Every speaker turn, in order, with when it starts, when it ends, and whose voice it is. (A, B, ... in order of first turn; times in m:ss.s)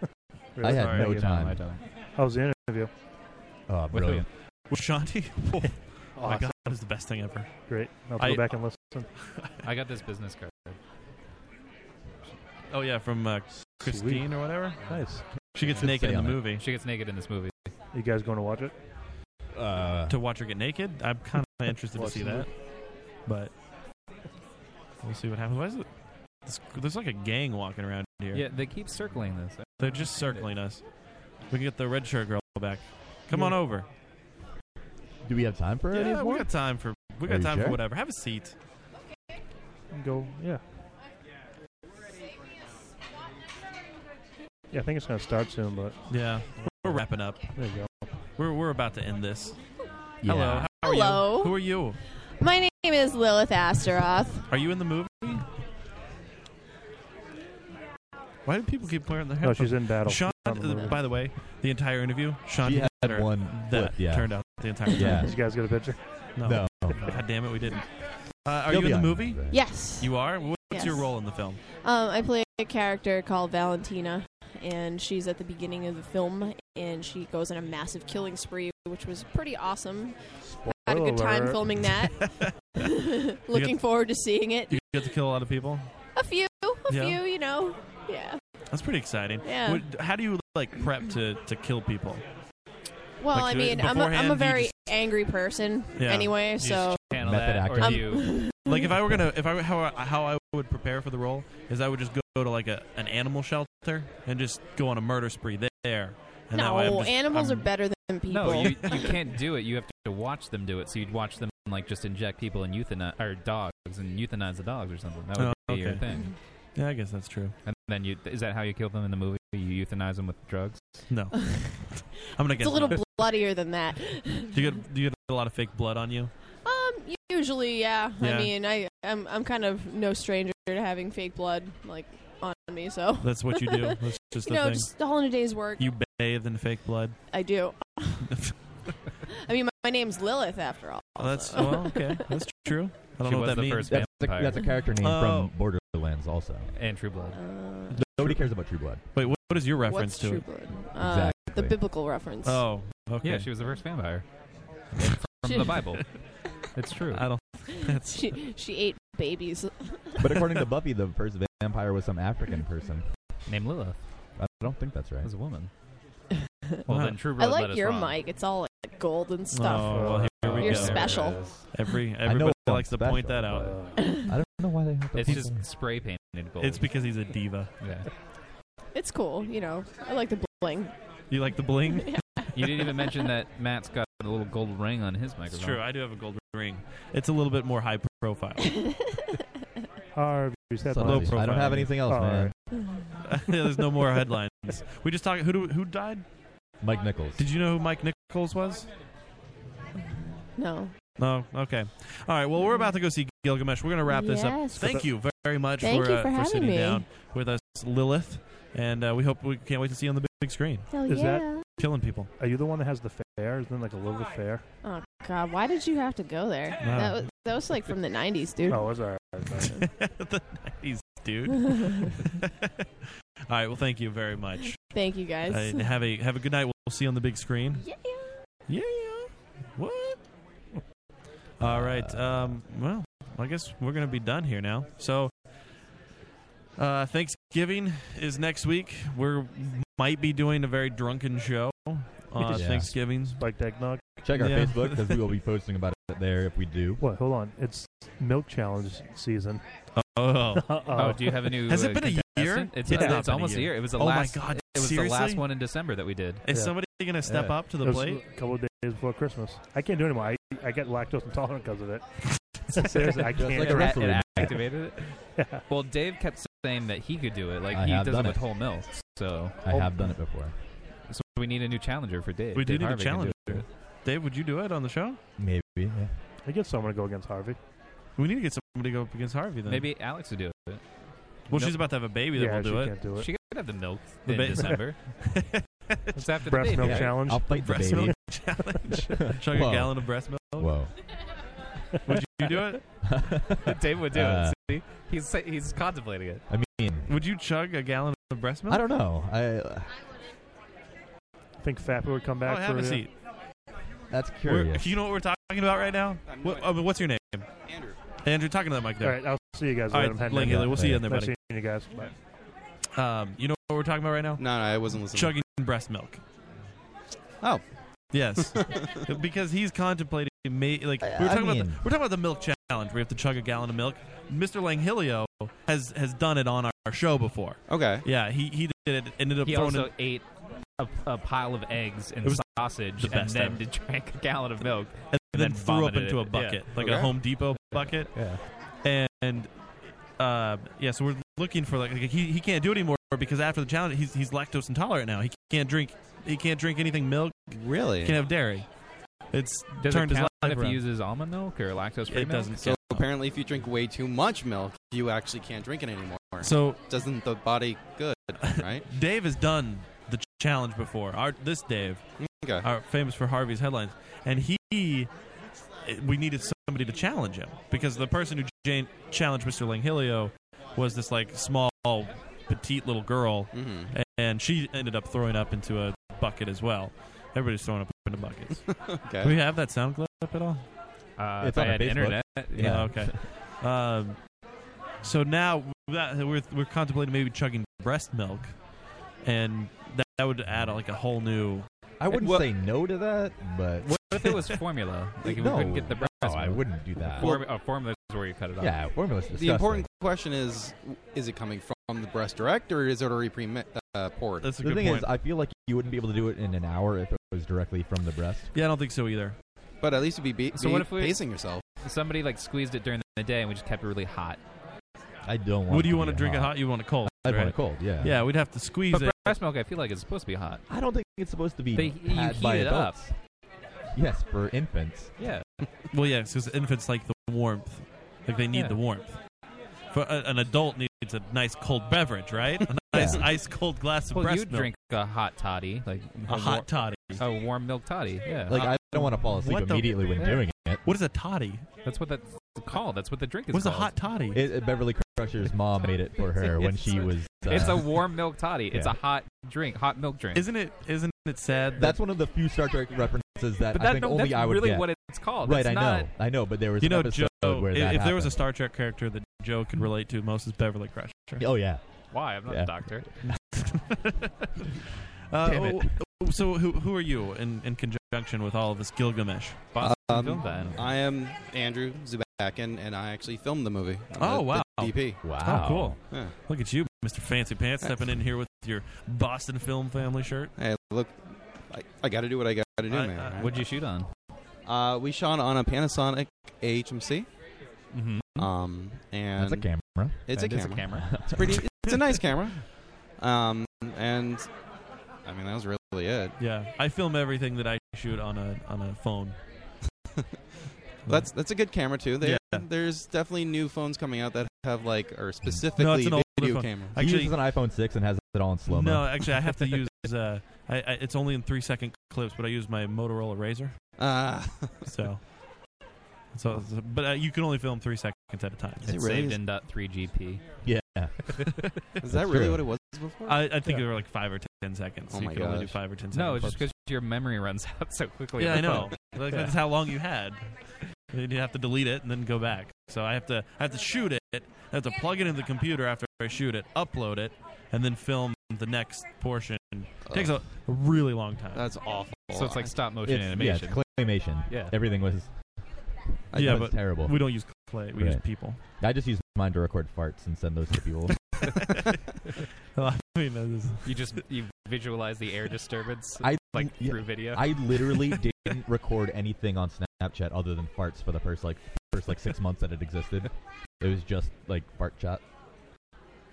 0:00.6-0:01.3 A
0:00.6-0:01.6 B
0:00.7-0:01.1 C
0:00.8-0:01.8 D
0:02.2-0:02.9 A
0:03.7-0:04.3 B
0:03.9-0:04.3 D
0:04.7-0:07.6 C
0:06.2-0:06.8 A
0:07.7-0:09.1 A
0:08.2-0:08.7 C
0:09.6-0:10.8 D
0:12.7-0:14.8 C
0:13.8-0:15.5 A
0:15.4-0:16.6 C
0:15.7-0:16.4 B
0:16.6-0:17.7 D
0:17.9-0:18.8 A
0:19.5-0:20.2 B
0:20.1-0:22.5 C
0:22.0-0:22.5 A
0:23.3-0:23.5 C
0:25.0-0:25.9 C
0:26.4-0:28.4 C
0:28.3-0:30.4 D
0:29.8-0:30.8 C
0:31.5-0:33.9 C
0:33.3-0:33.6 A
0:35.2-0:36.5 B
0:35.9-0:38.6 C
0:37.2-0:37.8 B
0:39.9-0:40.6 A
0:44.7-0:48.1 A
0:46.1-0:47.5 C
0:48.4-0:49.6 C
0:50.2-0:50.7 B
0:50.2-0:52.0 C
0:50.8-0:51.6 E
0:52.4-0:54.5 E
0:54.5-0:55.5 C
0:58.4-1:05.2 C
0:59.4-1:01.0 A
1:02.6-1:05.4 B
1:05.2-1:06.3 A
1:06.4-1:11.6 C
1:06.4-1:07.2 B
1:06.9-1:07.2 A
1:08.7-1:09.6 B
1:09.5-1:11.2 E
1:11.8-1:20.2 E
1:20.5-1:22.0 A
1:20.7-1:25.1 E
1:22.2-1:22.8 C
1:23.5-1:24.0 C
1:24.7-1:25.9 C
1:26.1-1:28.4 E
1:26.9-1:27.2 C
1:28.7-1:32.2 C
1:29.4-1:29.9 E
1:33.2-1:37.0 E
1:33.3-1:35.0 C
1:35.9-1:36.8 C
1:36.6-1:38.4 D
1:37.1-1:38.4 B
1:37.8-1:39.0 E
1:38.6-1:47.7 C
1:46.5-1:49.2 E
1:48.3-1:56.3 D
1:48.4-1:49.0 C
1:55.4-1:56.0 C
1:56.8-1:57.6 C
1:57.6-2:01.0 D
2:01.1-2:03.2 C
2:01.4-2:04.7 E
2:04.5-2:06.3 C
2:06.6-2:15.9 E
2:08.2-2:08.5 C
2:13.2-2:14.9 C
2:15.8-2:17.2 C
2:17.3-2:18.4 E
2:18.2-2:18.5 C
2:19.3-2:22.4 E
2:21.2-2:24.0 C
2:23.2-2:24.6 D
2:23.9-2:26.7 B
2:25.0-2:25.5 C
2:26.8-2:27.4 D
2:27.3-2:28.0 E
2:27.9-2:28.4 C
2:28.0-2:29.0 B
2:29.1-2:30.5 C
2:29.9-2:32.7 E
2:31.0-2:31.8 B
2:32.4-2:33.5 C
2:33.2-2:34.3 D
2:35.0-2:36.2 D
2:35.5-2:35.8 E
2:36.7-2:37.3 D
2:37.1-2:38.4 C
2:37.7-2:40.4 E
2:40.2-2:43.1 B
2:43.5-2:44.0 D
2:44.4-2:45.3 B
2:45.2-2:45.7 D
2:46.9-2:48.2 D
2:46.9-2:47.2 C
2:47.3-2:51.5 E
2:49.5-2:53.7 C
2:49.8-2:50.7 A
2:50.0-2:51.6 D
2:52.2-2:55.6 B
2:53.6-2:54.1 A
2:54.0-2:54.3 E
2:55.2-2:56.9 D
2:56.6-2:57.7 C
2:57.8-2:58.1 D
2:58.9-3:00.9 E
3:01.3-3:02.2 C
3:01.9-3:03.1 E
3:02.5-3:05.8 D
3:05.5-3:08.7 C
3:08.7-3:09.1 E
3:10.1-3:12.6 A
3:10.9-3:12.5 B
3:11.0-3:12.0 C
3:12.7-3:13.2 E
3:13.2-3:16.2 C
3:16.8-3:17.4 B
3:17.4-3:18.9 C
3:20.6-3:20.9 E
3:21.2-3:30.9 C
3:22.6-3:22.9 E
3:24.0-3:25.0 E
3:24.8-3:25.1 A
3:25.8-3:27.1 E
3:30.9-3:31.7 E
3:31.1-3:31.6 A
3:31.8-3:32.3 C
3:32.4-3:34.6 A
3:34.8-3:39.0 E
3:36.8-3:37.3 C
3:38.7-3:39.7 A
3:39.8-3:42.7 C
3:41.6-3:42.1 E
3:43.5-3:47.8 C
3:44.9-3:45.9 E
3:47.8-3:48.4 E
3:48.7-3:50.2 C
3:51.6-3:55.3 C
3:51.6-3:52.6 B
3:56.8-4:03.4 C
4:02.4-4:04.3 A
4:02.5-4:03.0 B
4:04.2-4:07.0 B
4:04.4-4:05.1 C
4:07.0-4:09.6 A
4:09.9-4:15.4 C
4:10.6-4:11.7 A
4:11.0-4:16.4 D
4:12.9-4:13.2 A
4:16.4-4:18.2 C
4:16.5-4:16.8 A
4:17.3-4:17.5 D
4:17.8-4:22.0 A
4:22.7-4:24.5 A
4:22.7-4:29.6 D
4:23.4-4:24.6 B
4:25.4-4:25.6 A
4:27.7-4:28.4 B
4:29.6-4:30.5 B
4:29.7-4:30.2 A
4:31.1-4:33.6 D
4:32.6-4:35.2 C
4:35.4-4:36.1 B
4:36.4-4:37.6 A
4:38.2-4:39.9 C
4:39.7-4:40.8 D
4:41.5-4:41.8 D
4:41.5-4:43.0 C
4:42.3-4:43.3 A
4:43.1-4:45.0 D
4:44.3-4:46.2 C
4:46.2-4:48.1 A
4:46.2-4:47.2 D
4:46.8-4:48.2 B
4:46.8-4:50.7 C
4:49.2-4:50.9 B
4:52.1-4:52.8 C
4:53.0-4:54.6 B
4:53.6-4:56.4 D
4:56.5-4:57.1 B
4:57.1-4:58.8 C
4:58.7-4:59.9 B
5:01.6-5:03.1 A
5:02.4-5:03.1 C
5:04.1-5:05.0 B
5:04.4-5:07.5 C
5:06.3-5:06.7 F
5:07.6-5:08.0 F
5:08.2-5:11.3 C
5:09.0-5:12.1 A
5:10.4-5:11.1 B
5:13.0-5:14.5 C
5:14.4-5:15.4 F
5:15.1-5:16.2 C
5:18.1-5:29.9 C
5:18.4-5:19.1 F
5:21.0-5:21.8 B
5:27.7-5:28.1 F
5:29.4-5:36.7 D
5:32.2-5:33.6 C
5:35.1-5:39.5 C
5:36.8-5:37.2 F
5:37.7-5:38.4 D
5:40.2-5:48.7 C
5:47.5-5:48.2 F
5:49.3-5:50.8 C
5:49.8-5:52.6 D
5:52.1-5:53.0 C
5:52.6-5:58.9 F
5:56.4-5:56.8 C
5:58.4-6:02.1 C
6:02.2-6:02.7 F
6:02.6-6:05.1 C
6:05.8-6:20.6 C
6:13.5-6:13.9 F
6:18.7-6:19.4 F
6:21.2-6:22.9 D
6:21.4-6:23.2 B
6:22.6-6:24.2 C
6:25.0-6:28.6 C
6:29.2-6:31.7 C
6:32.0-6:34.3 B
6:33.8-6:38.8 D
6:35.2-6:37.3 B
6:38.6-6:39.9 B
6:39.3-6:44.5 F
6:44.4-6:45.1 C
6:44.6-6:48.5 B
6:48.5-6:49.4 C
6:49.8-6:51.6 F
6:50.5-6:51.2 D
6:51.8-6:54.4 D
6:55.2-6:58.2 B
6:55.7-6:59.4 C
6:58.9-7:00.6 D
7:00.7-7:03.2 B
7:01.8-7:03.0 D
7:03.9-7:05.1 B
7:05.2-7:05.4 D
7:05.9-7:09.2 C
7:08.5-7:08.8 D
7:09.9-7:14.7 C
7:12.9-7:13.3 B
7:14.1-7:18.6 D
7:16.3-7:17.2 C
7:18.5-7:20.8 B
7:18.5-7:20.1 C
7:20.8-7:21.6 C
7:21.8-7:23.9 D
7:23.5-7:24.4 C
7:24.3-7:28.1 B
7:26.5-7:30.5 D
7:28.7-7:29.0 B
7:30.4-7:32.0 C
7:31.8-7:38.4 B
7:33.7-7:36.1 D
7:36.8-7:41.5 C
7:41.4-7:43.3 B
7:42.1-7:43.1 D
7:43.2-7:44.5 C
7:45.3-7:49.6 C
7:45.4-7:46.0 B
7:49.7-7:50.8 D
7:49.8-7:50.7 B
7:49.9-7:55.3 F
7:54.2-8:00.5 C
7:55.2-7:56.0 B
7:56.1-7:56.4 F
8:00.6-8:03.6 F
8:02.9-8:03.6 C
8:03.3-8:04.1 D
8:04.6-8:07.3 F
8:07.9-8:08.5 D
8:08.4-8:09.7 F
8:09.4-8:11.5 B
8:10.3-8:12.7 F
8:10.3-8:11.1 D
8:13.2-8:14.5 F
8:15.2-8:16.4 F
8:16.4-8:19.4 C
8:21.1-8:21.3 C
8:21.1-8:27.0 F
8:22.2-8:22.7 C
8:25.8-8:27.3 C
8:27.0-8:29.4 B
8:28.7-8:33.7 C
8:34.0-8:34.9 F
8:34.9-8:35.4 C
8:36.3-8:38.9 C
8:38.8-8:39.4 F
8:38.8-8:40.4 D
8:40.6-8:41.5 B
8:42.0-8:43.5 F
8:42.1-8:42.6 B
8:43.3-8:46.7 C
8:45.1-8:45.8 F
8:46.1-8:49.5 D
8:48.4-8:50.5 C
8:51.1-9:01.7 C
9:00.1-9:00.4 F
9:01.5-9:02.8 F
9:02.3-9:03.8 D
9:03.0-9:05.4 B
9:04.5-9:04.8 D
9:06.3-9:07.2 B
9:06.3-9:08.6 C
9:08.0-9:11.2 B
9:12.8-9:14.0 C
9:13.8-9:17.6 D
9:16.2-9:25.2 B